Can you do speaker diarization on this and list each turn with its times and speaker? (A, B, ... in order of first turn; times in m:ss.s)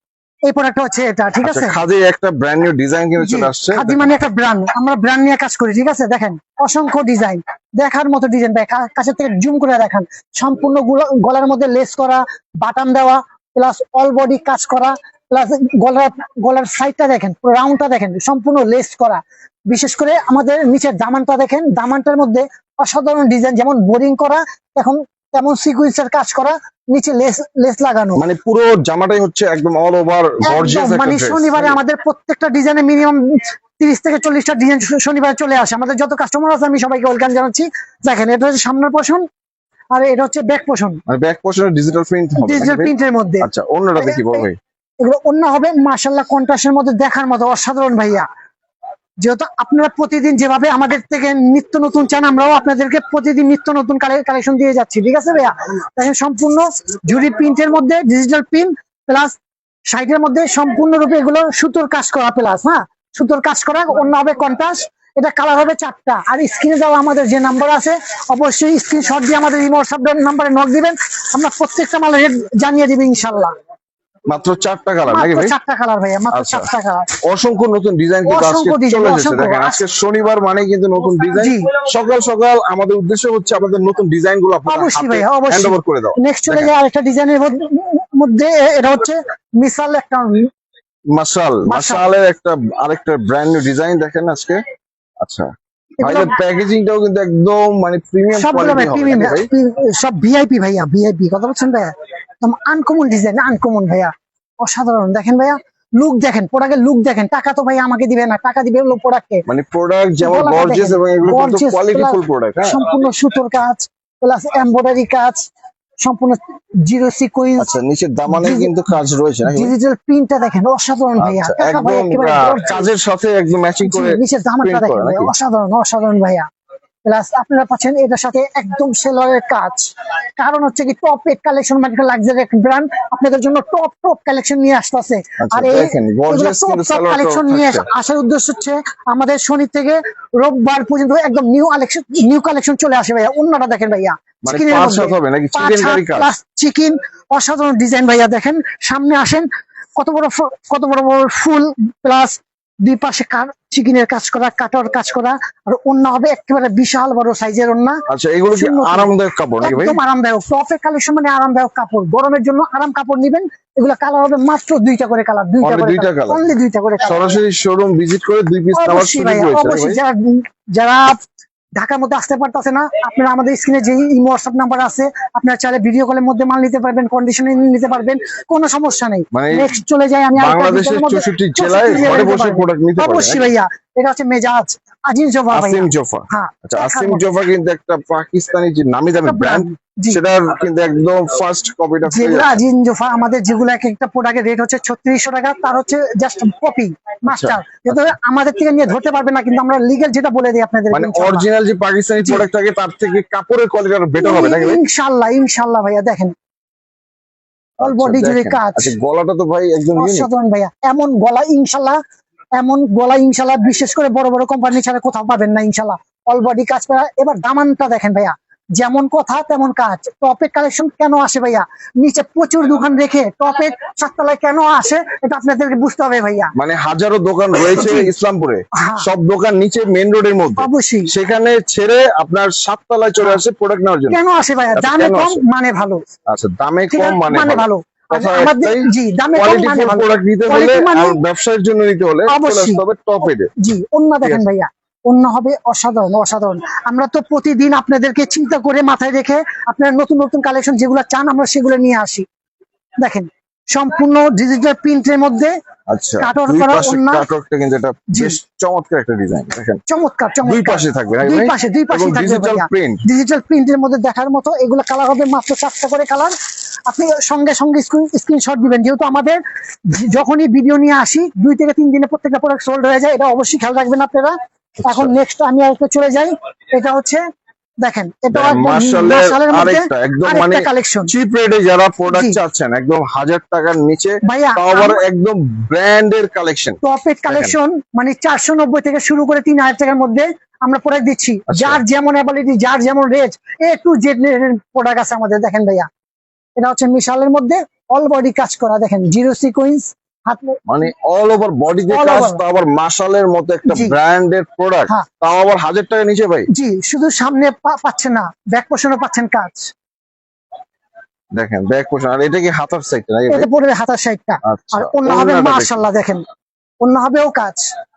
0:00.4-0:01.8 A
0:01.4-0:04.1 B
0:03.2-0:28.2 A
0:28.2-0:31.8 B
0:30.5-0:39.2 A
0:39.9-0:41.0 A
0:41.1-0:44.6 B
0:42.4-0:44.5 A
0:45.0-0:48.3 A
0:49.2-0:59.4 A
0:59.9-1:13.5 A
1:14.3-1:15.5 B
1:15.1-1:17.1 A
1:16.3-1:16.7 B
1:17.2-1:26.7 B
1:18.3-1:19.8 A
1:21.4-1:21.7 A
1:24.7-1:30.5 A
1:31.2-1:34.6 B
1:31.7-1:32.0 A
1:35.2-1:35.5 B
1:36.0-1:36.4 A
1:36.0-1:39.5 B
1:38.3-1:49.4 A
1:49.5-1:52.8 B
1:50.2-1:55.5 A
1:56.0-1:57.7 A
1:57.6-1:59.7 B
1:58.3-1:58.7 A
1:59.5-2:02.9 A
2:01.2-2:05.3 B
2:03.8-2:06.5 A
2:07.0-2:38.0 A
2:15.4-2:17.8 B
2:24.4-2:26.3 B
2:38.1-2:40.0 B
2:38.5-2:47.3 A
2:45.6-2:46.4 B
2:47.0-2:50.0 B
2:48.7-2:51.2 A
2:51.8-3:07.4 A
2:59.3-2:59.7 B
3:00.4-3:03.5 B
3:05.5-3:12.6 B
3:09.2-3:10.2 A
3:12.1-3:21.5 A
3:17.3-3:18.1 B
3:20.9-3:24.8 B
3:24.2-3:26.3 A
3:27.8-3:30.3 B
3:27.8-3:28.9 A
3:30.0-3:32.0 A
3:32.6-3:46.5 A
3:46.6-3:54.2 B
3:47.7-3:48.1 A
3:48.8-3:49.1 A
3:50.6-3:51.1 A
3:54.1-3:56.0 A
3:54.8-3:55.4 B
3:56.3-4:03.5 B
3:56.9-4:01.2 A
4:02.3-4:02.8 A
4:03.6-4:12.2 A
4:13.0-4:15.5 A
4:15.9-4:19.8 B
4:16.2-4:17.3 A
4:18.1-4:18.4 A
4:19.9-4:26.3 A
4:20.4-4:23.0 B
4:26.9-4:29.4 A
4:29.9-4:37.2 A
4:34.8-4:35.1 B
4:37.8-4:41.1 A
4:38.3-4:47.6 B
4:42.1-4:42.4 A
4:44.2-4:45.0 A
4:46.8-4:55.9 A
4:51.5-4:51.8 B
4:56.6-5:00.6 A
5:00.7-5:06.5 B
5:01.9-5:02.4 A
5:03.7-5:04.0 A
5:06.5-5:09.7 A
5:11.4-5:13.5 B
5:13.3-5:16.2 A
5:14.4-5:15.9 B
5:16.8-5:17.7 A